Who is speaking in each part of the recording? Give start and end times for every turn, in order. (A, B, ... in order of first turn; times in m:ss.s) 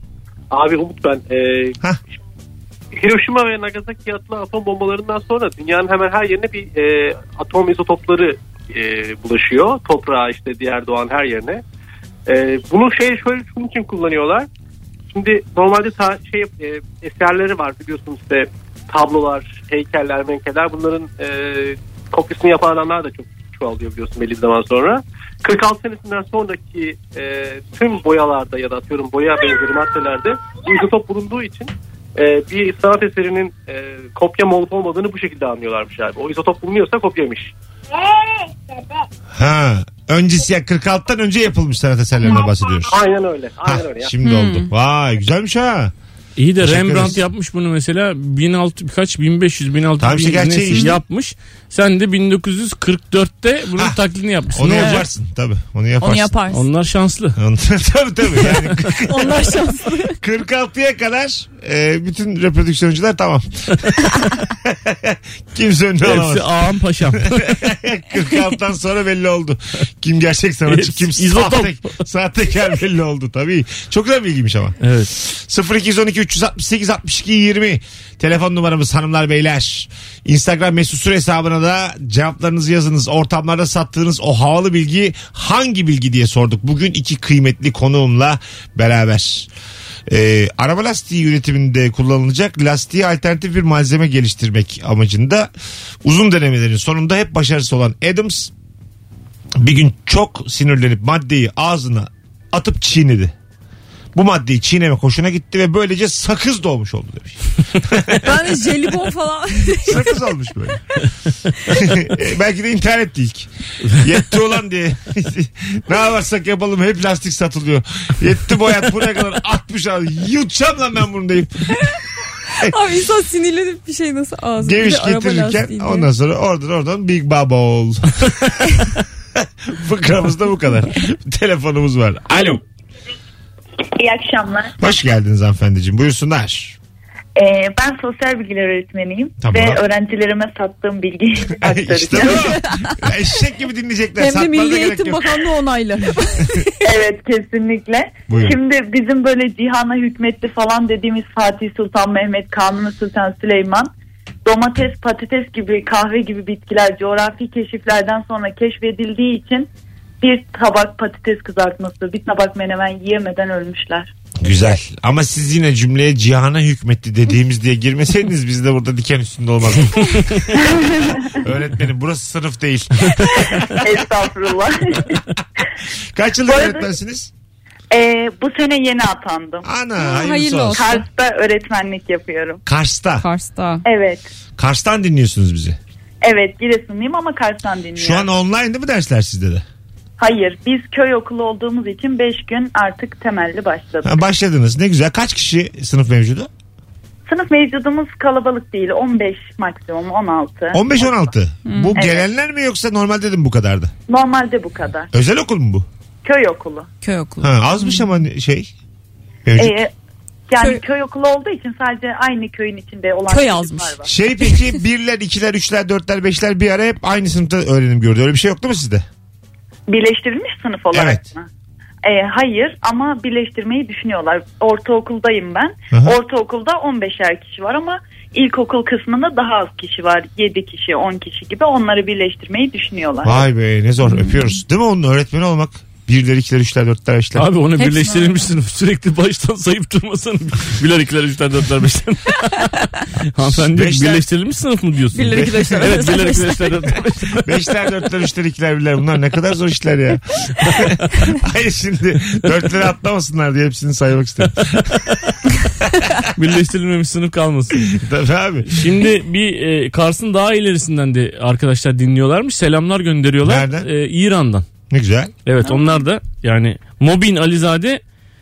0:00.5-0:01.8 A
0:02.9-0:11.6 A
0:12.2-0:14.5 A
0:15.1-0:37.5 A
0:39.3-0:43.0 B
0:42.8-0:44.1 A
0:43.6-0:45.9 B
0:44.2-0:44.7 C
0:46.4-0:55.0 D
0:46.6-0:47.2 B
0:50.0-0:51.0 B
0:54.5-0:56.4 B
0:56.0-0:56.6 C
0:56.5-0:57.4 D
0:57.4-1:06.5 B
0:59.1-1:00.2 C
1:06.0-1:07.6 D
1:07.2-1:29.5 B
1:10.7-1:12.0 D
1:14.8-1:15.1 D
1:30.1-1:35.5 B
1:36.0-1:38.5 B
1:39.6-1:43.3 B
1:44.1-1:48.4 B
1:48.1-1:50.2 C
1:49.7-1:50.8 B
1:51.7-2:01.9 B
2:02.6-2:06.1 C
2:04.6-2:08.8 B
2:09.4-2:12.6 B
2:13.9-2:14.8 E
2:14.8-2:16.8 B
2:17.4-2:22.6 E
2:19.4-2:19.8 B
2:21.6-2:25.4 B
2:22.3-2:22.9 C
2:24.2-2:26.7 C
2:26.8-2:33.9 E
2:28.3-2:28.6 B
2:34.4-2:39.7 E
2:40.2-2:44.1 E
2:44.4-2:50.7 B
2:50.6-2:51.4 E
2:51.4-2:53.7 B
2:53.6-2:55.2 E
2:56.1-2:57.3 B
2:56.4-2:56.9 E
2:57.9-2:59.7 E
2:59.6-3:00.8 B
3:00.0-3:01.0 C
3:00.7-3:02.6 E
3:02.6-3:03.3 B
3:03.2-3:03.8 C
3:03.8-3:04.3 E
3:04.6-3:05.8 B
3:06.2-3:08.3 E
3:08.0-3:09.6 B
3:10.2-3:14.1 E
3:14.0-3:16.5 B
3:17.2-3:21.3 E
3:20.7-3:23.9 B
3:21.6-3:22.0 C
3:21.9-3:22.3 E
3:24.1-3:25.1 E
3:25.1-3:25.9 B
3:26.2-3:26.9 E
3:27.0-3:28.1 C
3:27.4-3:28.7 B
3:29.4-3:29.8 B
3:29.6-3:29.9 E
3:30.5-3:34.1 E
3:33.3-3:34.0 C
3:34.0-3:39.0 B
3:39.9-3:41.5 E
3:40.9-3:41.2 B
3:42.0-3:53.4 E
3:53.2-3:57.5 B
3:57.4-4:02.7 D
3:57.8-3:58.4 C
4:03.3-4:07.5 D
4:03.5-4:04.3 B
4:05.1-4:06.9 C
4:05.3-4:05.7 B
4:07.4-4:15.0 B
4:15.8-4:16.1 B
4:16.3-4:18.0 D
4:17.9-4:18.8 B
4:18.7-4:24.6 D
4:23.4-4:23.9 B
4:24.9-4:25.3 B
4:25.4-4:28.0 D
4:25.6-4:26.0 C